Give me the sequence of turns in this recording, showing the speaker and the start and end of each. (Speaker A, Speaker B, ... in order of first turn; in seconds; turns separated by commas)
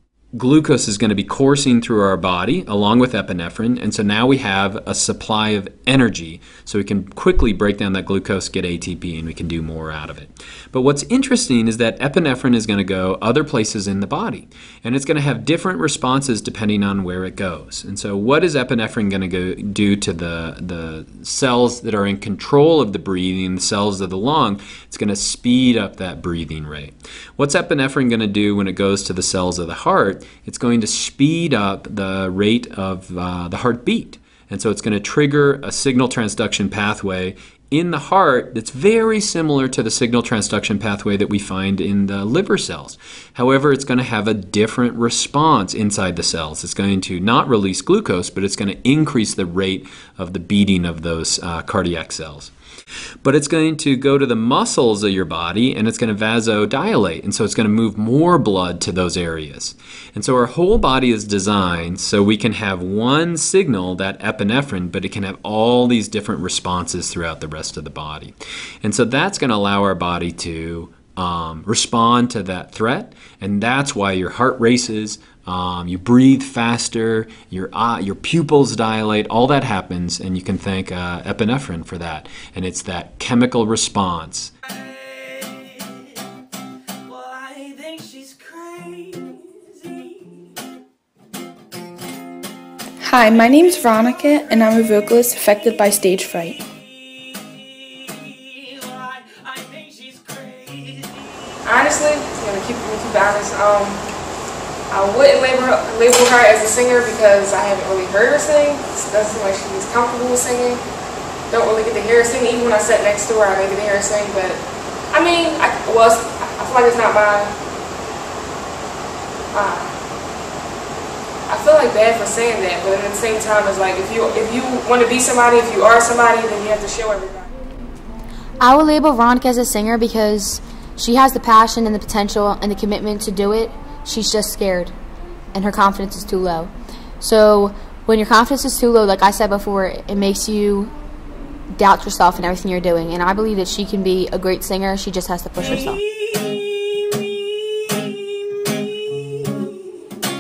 Speaker A: 0.3-52.5, Speaker A: 53.2-84.5, Speaker B: 84.7-86.0, Speaker B: 87.1-90.6, Speaker C: 93.0-96.6, Speaker B: 96.9-101.6, Speaker D: 101.7-104.0, Speaker D: 104.9-110.8, Speaker D: 111.5-117.5, Speaker D: 119.5-119.9, Speaker D: 121.5-127.5, Speaker E: 128.6-134.9, Speaker E: 135.5-140.9, Speaker E: 141.7-146.0, Speaker B: 145.6-150.0